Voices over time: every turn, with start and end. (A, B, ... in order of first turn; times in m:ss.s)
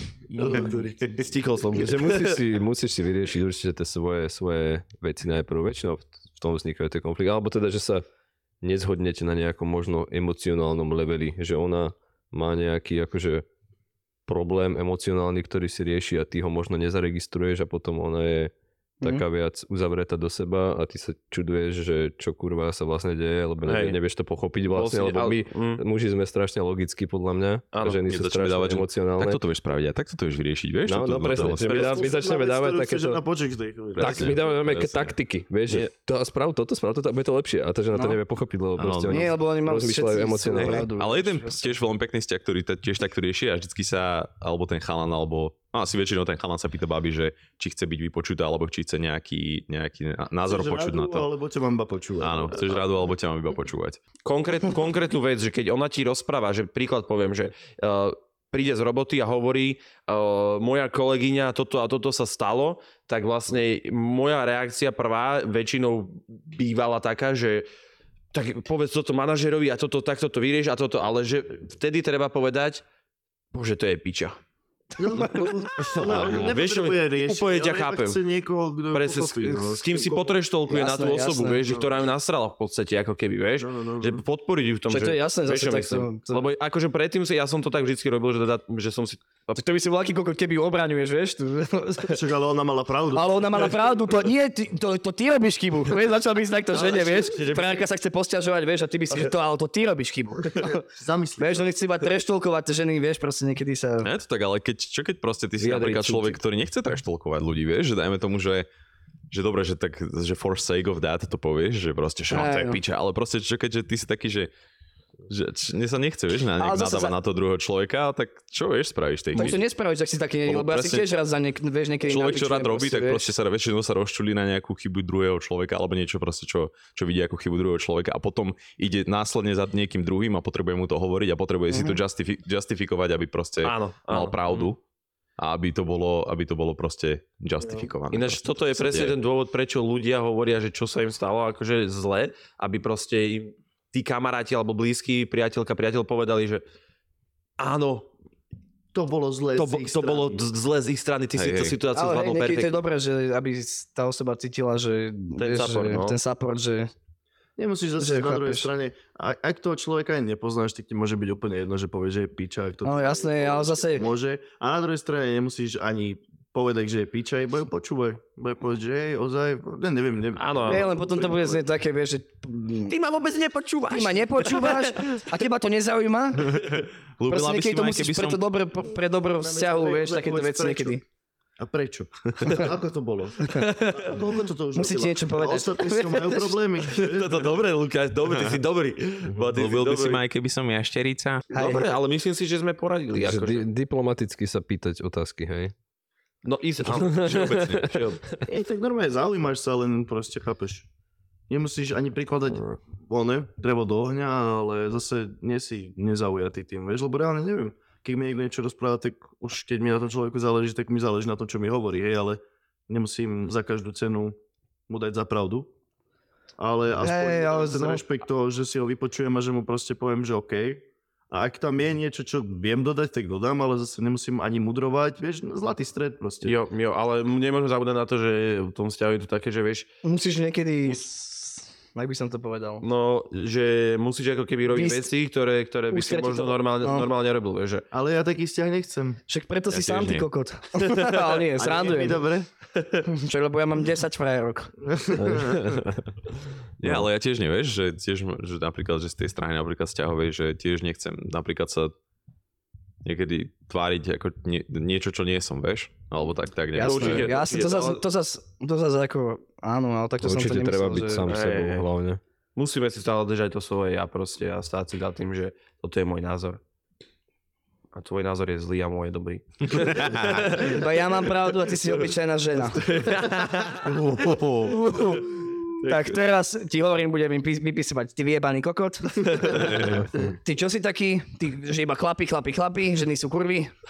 0:00.3-0:01.3 A
0:00.4-0:02.4 B
0:01.7-0:08.0 C
0:08.6-0:13.5 C
0:14.3-0:29.4 C
0:23.7-0:24.0 B
0:24.7-0:25.8 B
0:27.7-0:28.0 B
0:28.1-0:31.8 D
0:30.9-0:33.2 C
0:31.6-0:34.5 A
0:31.7-0:32.0 B
0:34.0-0:35.1 D
0:34.0-0:40.9 C
0:38.8-0:39.3 D
0:39.1-0:41.7 E
0:40.6-0:51.3 D
0:50.4-0:52.8 A
0:52.2-0:54.0 D
0:54.2-1:07.7 B
1:08.3-1:12.8 B
1:13.5-1:14.4 B
1:15.0-1:20.4 A
1:15.8-1:18.2 B
1:18.9-1:29.6 B
1:20.7-1:21.7 E
1:23.6-1:24.2 A
1:24.9-1:26.5 E
1:29.6-1:32.2 E
1:32.1-1:33.7 A
1:33.1-1:40.8 E
1:36.8-1:37.6 B
1:40.9-1:41.7 A
1:41.4-1:44.1 E
1:44.0-1:48.7 D
1:45.6-1:46.4 C
1:49.3-1:54.5 D
1:52.3-1:52.8 E
1:55.3-1:59.6 D
1:56.6-1:57.2 E
1:59.3-2:03.3 E
2:00.5-2:01.1 D
2:02.1-2:14.8 D
2:13.6-2:14.7 B
2:15.4-2:19.2 D
2:18.1-2:26.6 B
2:27.6-2:28.1 B
2:28.9-2:30.4 A
2:29.6-2:32.8 B
2:31.4-2:31.8 D
2:31.9-2:36.9 E
2:35.4-2:36.2 B
2:37.6-2:51.6 A
2:38.0-2:38.7 E
2:42.8-2:44.1 E
2:50.4-2:50.9 B
2:50.7-2:53.0 E
2:52.9-2:55.2 B
2:53.9-3:01.0 E
2:56.7-2:58.4 D
2:59.4-3:01.0 A
3:01.6-3:07.5 A
3:04.7-3:06.6 E
3:06.9-3:10.2 B
3:08.3-3:08.6 D
3:09.5-3:11.5 D
3:11.5-3:11.9 E
3:11.5-3:13.7 B
3:13.2-3:15.7 C
3:16.4-3:18.2 B
3:17.1-3:18.0 D
3:18.4-3:20.9 A
3:21.5-3:34.4 A
3:34.9-3:35.7 A
3:36.6-3:46.6 A
3:37.0-3:38.0 E
3:46.4-3:49.9 B
3:50.0-3:52.8 E
3:52.8-3:57.9 B
3:54.7-3:55.1 E
3:55.9-3:57.1 E
3:57.9-3:59.2 A
3:59.3-4:02.2 E
3:59.7-4:00.3 D
4:00.9-4:01.2 B
4:01.5-4:02.5 A
4:02.8-4:03.0 B
4:03.1-4:04.7 E
4:04.9-4:05.8 A
4:05.2-4:06.0 C
4:06.8-4:11.9 D
4:13.0-4:17.4 D
4:16.8-4:21.3 E
4:16.8-4:18.0 B
4:20.2-4:22.2 C
4:21.3-4:21.9 B
4:22.6-4:26.6 B
4:27.9-4:31.3 B
4:29.8-4:30.5 D
4:30.5-4:32.9 E
4:32.6-4:35.2 B
4:34.7-4:39.9 E
4:35.8-4:36.1 B
4:39.3-4:39.8 A
4:39.8-4:40.1 C
4:40.4-4:43.7 E